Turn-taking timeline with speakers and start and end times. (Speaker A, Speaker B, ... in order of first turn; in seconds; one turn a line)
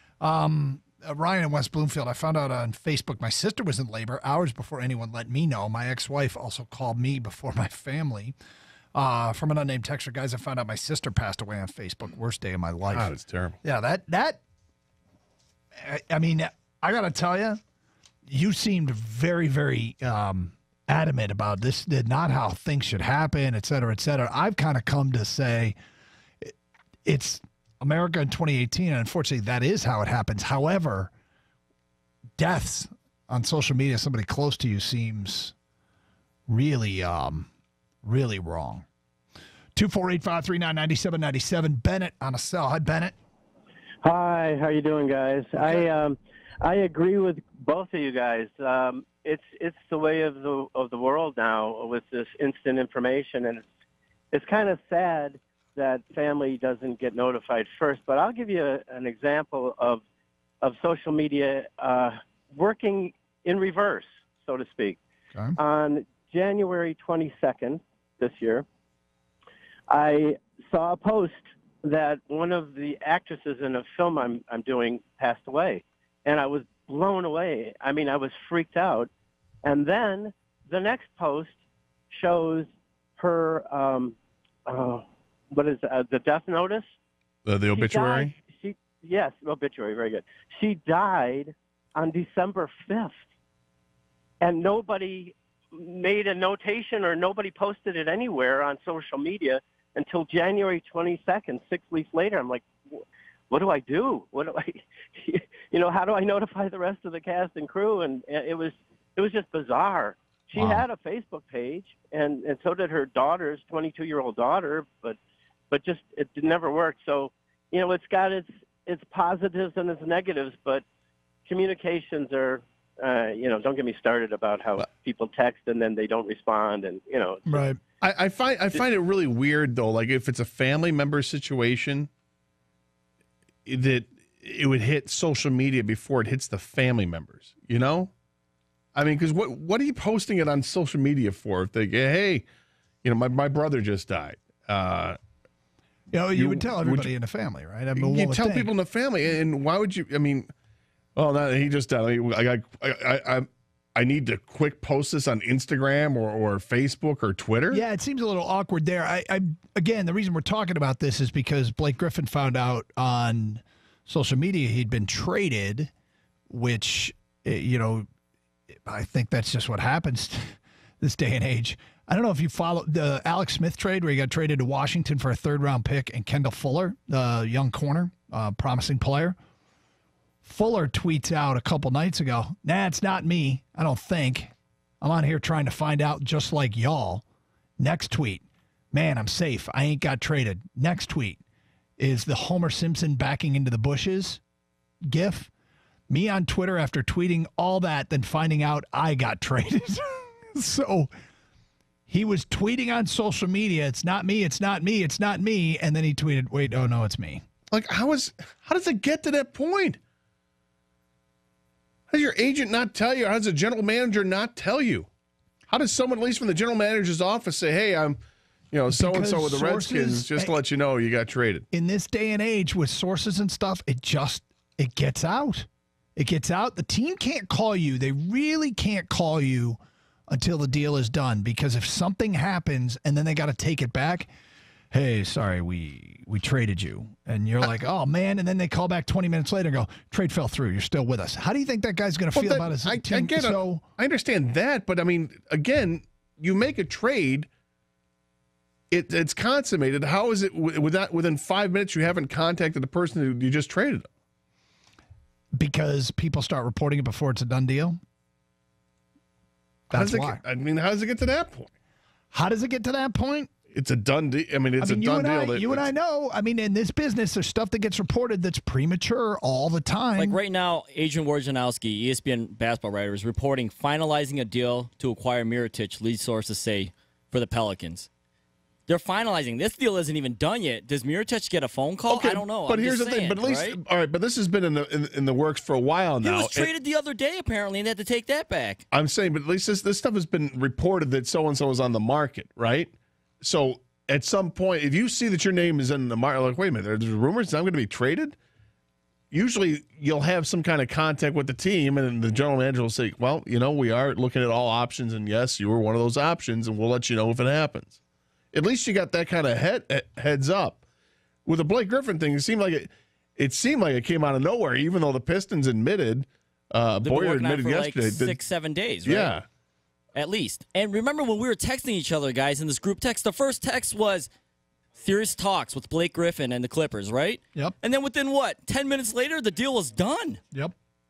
Speaker A: 0.2-8.3
Speaker A: 8.9-14.4
Speaker B: 12.9-13.6
Speaker A: 15.8-17.6
Speaker A: 18.3-25.8
Speaker A: 27.1-31.1
Speaker A: 32.4-35.5
Speaker A: 36.5-37.5
Speaker A: 38.0-38.9
Speaker A: 39.8-43.1
Speaker C: 44.0-53.6
Speaker A: 45.6-45.9
Speaker C: 54.3-60.0
Speaker C: 60.6-65.0
Speaker C: 65.6-68.7
Speaker C: 69.9-79.1
Speaker C: 79.6-81.5
Speaker C: 82.1-84.2
Speaker C: 84.7-86.8
Speaker B: 87.5-88.3
Speaker C: 87.8-93.2
Speaker C: 94.4-115.2
Speaker A: 110.5-110.8
Speaker C: 115.7-120.8
Speaker C: 121.5-127.7
Speaker A: 127.5-127.8
Speaker B: 128.0-132.1
Speaker B: 133.7-138.1
Speaker B: 138.9-142.4
Speaker B: 143.0-145.2
Speaker A: 146.1-148.7
Speaker B: 146.3-147.1
Speaker B: 148.0-150.5
Speaker B: 151.2-157.8
Speaker A: 157.7-165.9
Speaker A: 166.5-168.1
Speaker A: 168.9-179.4
Speaker A: 180.4-187.2
Speaker A: 187.8-191.4
Speaker A: 192.0-194.4
Speaker A: 195.1-195.5
Speaker A: 196.1-201.1
Speaker A: 202.1-207.4
Speaker B: 207.7-210.0
Speaker B: 212.1-215.1
Speaker B: 215.7-218.2
Speaker B: 218.7-221.7
Speaker A: 218.9-220.6
Speaker A: 221.7-229.8
Speaker A: 230.3-234.3
Speaker A: 234.9-243.8
Speaker B: 242.3-247.5
Speaker B: 248.9-254.1
Speaker A: 255.6-258.0
Speaker A: 259.9-260.4
Speaker B: 259.9-261.7
Speaker A: 262.3-263.5
Speaker B: 263.7-265.9
Speaker A: 264.8-270.4
Speaker D: 270.2-278.1
Speaker D: 278.9-283.8
Speaker B: 282.1-286.7
Speaker D: 286.2-288.8
Speaker B: 288.9-298.4
Speaker B: 299.3-308.0
Speaker B: 308.5-310.8
Speaker B: 311.4-318.4
Speaker D: 317.0-319.3
Speaker B: 319.1-319.4
Speaker D: 320.1-324.3
Speaker D: 325.0-330.4